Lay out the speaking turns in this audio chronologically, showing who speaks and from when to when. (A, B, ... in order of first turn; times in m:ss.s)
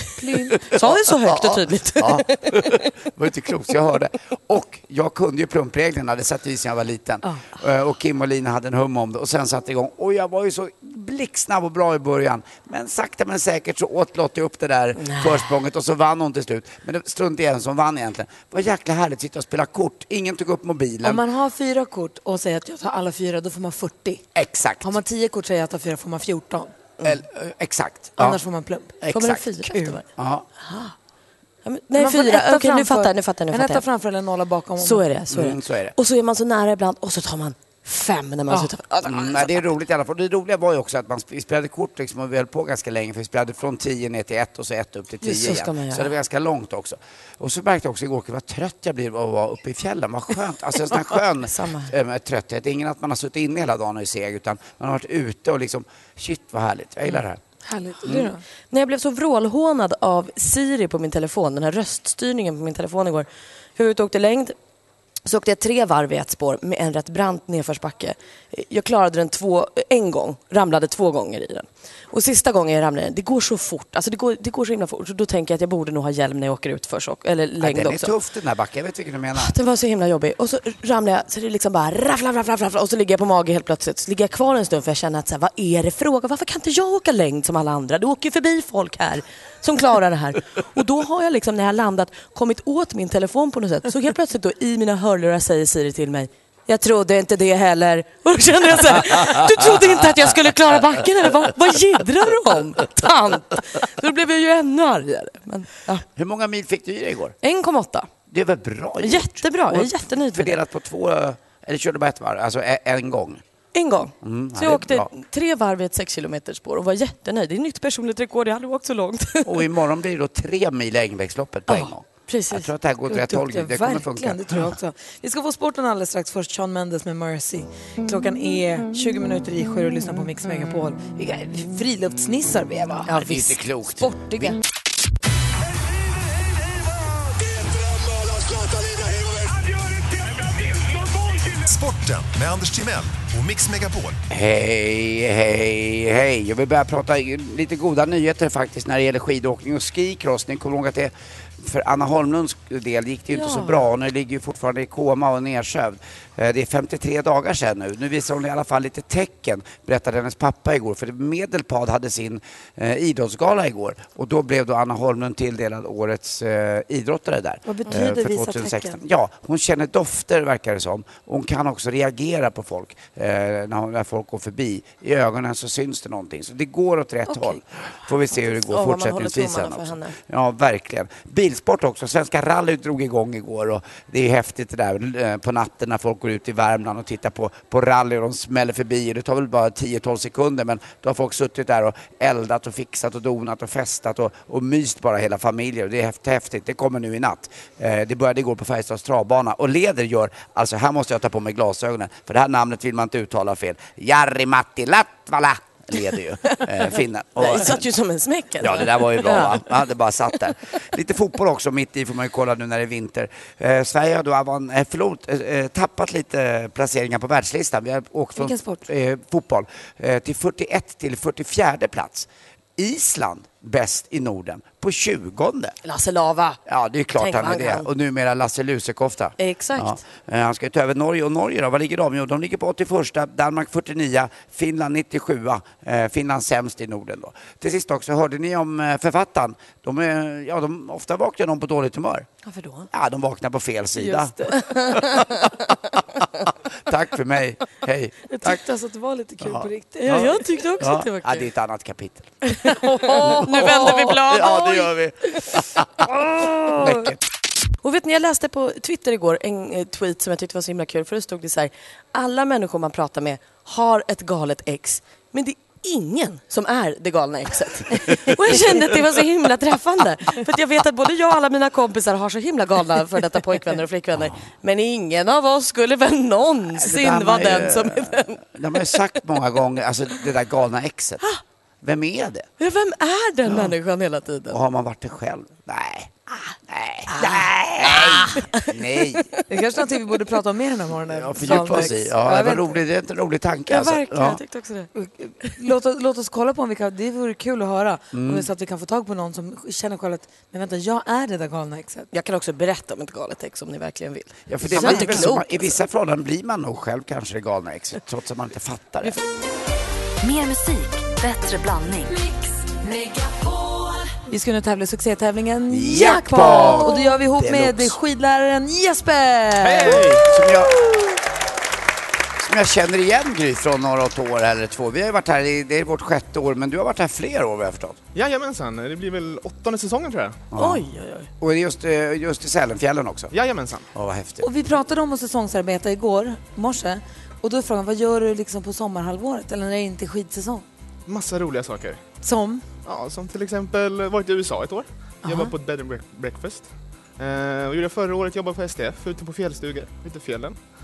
0:00.2-0:00.7 A
0:00.7-0:02.9 B
0:00.7-0:21.2 C
0:15.0-0:15.5 B
0:21.0-0:24.2 A
0:24.3-0:24.9 C
0:24.8-0:26.7 A
0:27.0-0:28.4 C
0:28.2-0:29.0 A
0:29.0-0:29.4 C
0:29.1-0:30.0 B
0:29.7-0:30.0 A
0:30.2-0:30.4 C
0:30.6-0:30.9 B
0:31.6-0:33.8 B
0:31.9-0:35.0 A
0:34.8-0:39.7 B
0:35.3-0:35.9 C
0:39.0-0:57.4 C
0:45.2-0:46.1 B
0:51.5-0:51.9 B
0:57.6-0:58.4 A
0:58.7-1:04.5 B
1:05.2-1:18.1 B
1:17.6-1:19.5 C
1:19.3-1:46.0 B
1:46.2-1:47.4 C
1:47.4-1:48.1 B
1:48.3-1:53.4 C
1:49.0-1:50.6 B
1:53.7-1:59.7 B
1:54.2-1:55.1 C
1:59.4-2:04.7 C
2:01.7-2:02.7 B
2:03.1-2:13.1 A
2:13.1-2:13.6 B
2:13.1-2:14.6 C
2:21.6-2:24.2 D
2:24.3-3:27.9 C
2:33.3-2:33.9 B
2:47.6-2:49.0 A
2:57.3-2:57.6 A
2:58.7-3:00.2 B
3:26.5-3:29.6 B
3:28.6-3:45.8 C
3:38.4-3:38.8 A
3:45.8-3:46.6 B
3:46.6-4:02.3 C
3:47.2-3:47.9 B
3:49.4-3:50.0 B
4:02.4-4:02.9 B
4:02.9-4:05.2 C
4:04.0-4:04.6 A
4:04.6-4:05.5 B
4:06.8-4:08.6 C
4:08.3-4:10.3 A
4:09.4-4:12.4 C
4:10.0-4:11.5 B
4:12.4-4:14.9 B
4:12.7-4:14.1 A
4:13.2-4:17.2 C
4:17.8-4:38.4 B
4:36.7-4:41.2 C
4:41.8-4:42.5 C
4:42.6-4:44.6 B
4:44.5-4:49.3 C
4:47.1-4:48.7 B
4:49.5-4:52.8 A
4:51.1-4:54.4 C
4:53.7-4:54.9 B
4:54.9-5:02.1 A
4:58.1-4:58.5 C
5:02.1-5:05.8 B
5:04.5-5:09.2 C
5:04.7-5:05.3 A
5:10.2-5:12.3 E
5:12.8-5:14.0 E
5:14.3-5:20.2 A
5:15.7-5:17.9 C
5:19.6-5:20.3 F
5:20.1-5:20.7 C
5:22.4-5:28.0 C
5:28.1-5:30.4 F
5:30.5-5:30.8 C
5:30.6-5:31.3 B
5:31.4-5:33.3 C
5:33.3-5:33.9 F
5:33.9-5:34.4 C
5:34.4-5:40.6 A
5:41.1-5:42.0 F
5:42.2-5:42.6 A
5:42.8-5:50.6 F
5:45.2-5:45.5 A